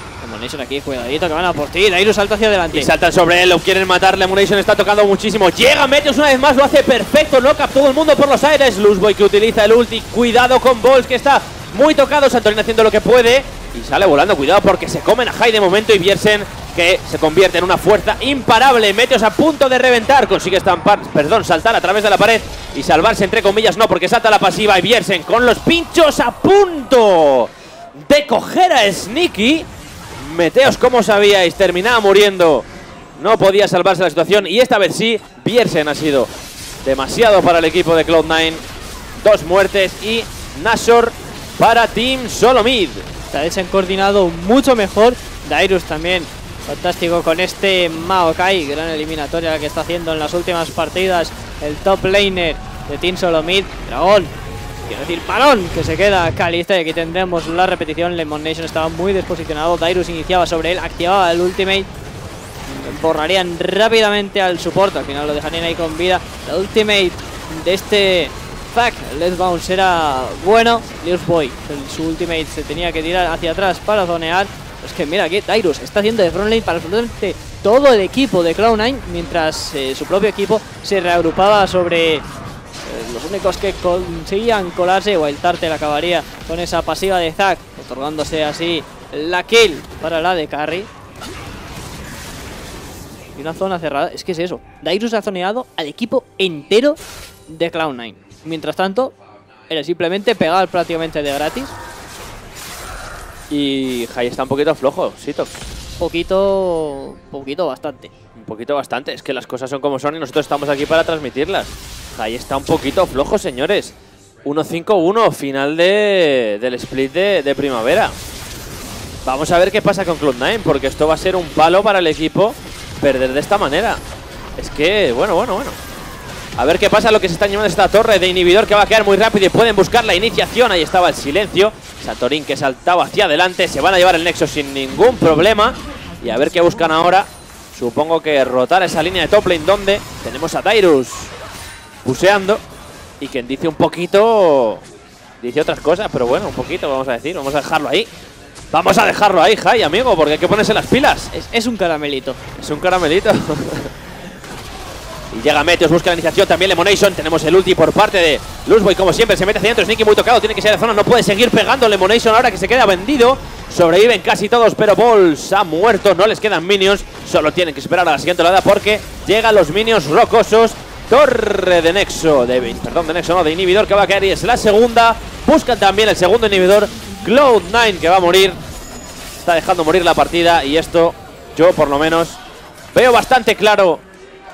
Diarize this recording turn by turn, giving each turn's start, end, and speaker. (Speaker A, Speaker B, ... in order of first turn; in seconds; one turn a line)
Speaker A: 0.2-2.9
Speaker B: 2.7-29.7
Speaker B: 30.2-32.6
Speaker B: 33.2-36.3
Speaker B: 36.8-38.6
Speaker B: 39.2-43.0
Speaker A: 43.3-54.3
Speaker A: 54.9-61.9
Speaker A: 62.7-82.2
Speaker A: 82.8-90.9
Speaker A: 93.3-99.1
Speaker A: 99.7-101.7
Speaker B: 103.5-105.5
Speaker A: 106.0-108.1
Speaker B: 108.4-118.2
Speaker B: 119.2-124.0
Speaker B: 124.6-125.8
Speaker B: 126.6-141.3
Speaker B: 142.0-142.6
Speaker B: 143.2-144.8
Speaker B: 145.4-148.1
Speaker B: 148.7-151.3
Speaker A: 151.3-152.4
Speaker B: 152.6-153.9
Speaker B: 155.3-178.6
Speaker B: 179.4-182.4
Speaker B: 182.9-184.0